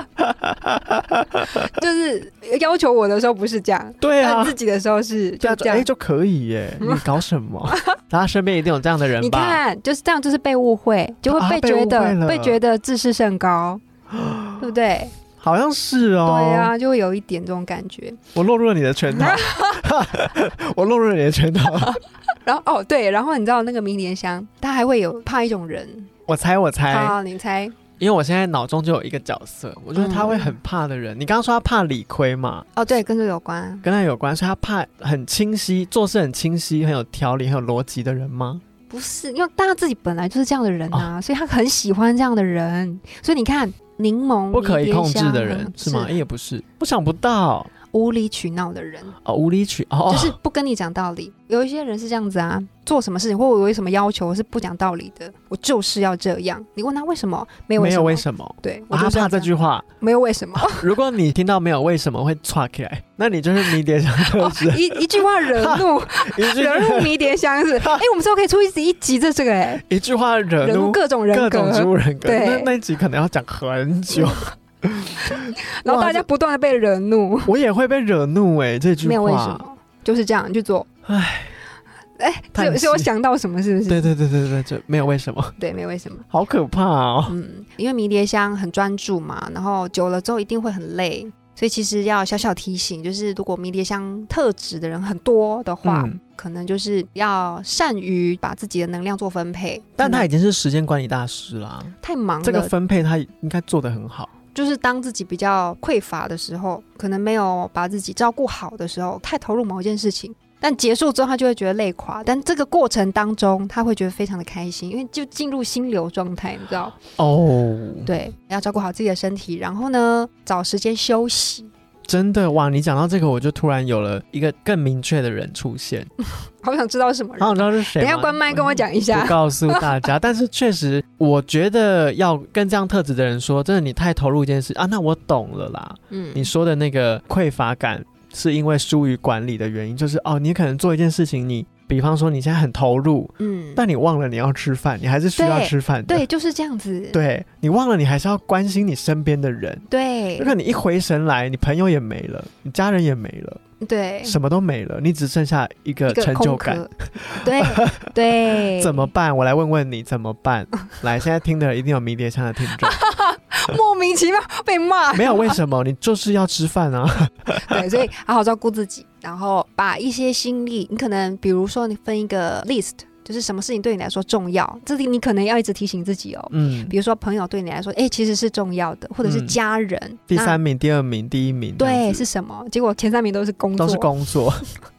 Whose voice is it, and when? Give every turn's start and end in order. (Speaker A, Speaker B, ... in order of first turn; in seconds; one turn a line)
Speaker A: 0.2-1.5
Speaker B: 1.5-5.9
Speaker A: 4.0-4.6
Speaker A: 5.4-9.6
Speaker B: 9.2-13.8
Speaker A: 11.2-12.6
Speaker A: 14.1-14.6
Speaker B: 14.6-15.1
Speaker A: 15.4-16.7
Speaker B: 16.2-18.2
Speaker A: 18.3-22.0
Speaker B: 19.1-19.8
Speaker B: 21.9-26.1
Speaker A: 26.3-27.2
Speaker B: 26.9-27.8
Speaker A: 28.0-32.7
Speaker B: 29.9-30.6
Speaker B: 32.7-33.8
Speaker A: 33.8-38.6
Speaker B: 38.9-46.1
Speaker A: 44.5-47.7
Speaker B: 47.9-49.1
Speaker A: 49.2-50.4
Speaker B: 50.1-60.9
Speaker A: 57.8-59.9
Speaker A: 60.5-68.0
Speaker B: 64.2-69.8
Speaker A: 69.8-76.2
Speaker B: 70.6-72.7
Speaker B: 74.1-74.5
Speaker B: 75.2-77.5
Speaker A: 77.5-79.6
Speaker B: 79.0-80.9
Speaker A: 81.0-81.5
Speaker B: 82.2-84.1
Speaker A: 82.5-83.1
Speaker A: 83.9-85.6
Speaker B: 85.6-86.2
Speaker A: 86.3-87.3
Speaker B: 87.3-100.3
Speaker A: 95.8-96.2
Speaker A: 100.0-104.3
Speaker B: 102.0-102.7
Speaker B: 104.5-117.0
Speaker A: 117.2-118.1
Speaker B: 118.0-121.7
Speaker A: 122.1-126.1
Speaker B: 126.5-129.9
Speaker A: 127.4-146.2
Speaker B: 136.1-136.5
Speaker B: 143.4-143.8
Speaker B: 145.4-147.2
Speaker A: 147.1-149.8
Speaker B: 149.9-150.5
Speaker A: 150.4-153.6
Speaker B: 153.8-154.4
Speaker A: 154.2-158.1
Speaker B: 156.1-159.1
Speaker A: 158.7-163.0
Speaker B: 162.8-165.6
Speaker A: 165.1-167.9
Speaker B: 167.5-180.6
Speaker A: 176.5-176.9
Speaker A: 179.2-179.6
Speaker A: 180.3-182.2
Speaker B: 181.8-184.1
Speaker A: 183.8-184.7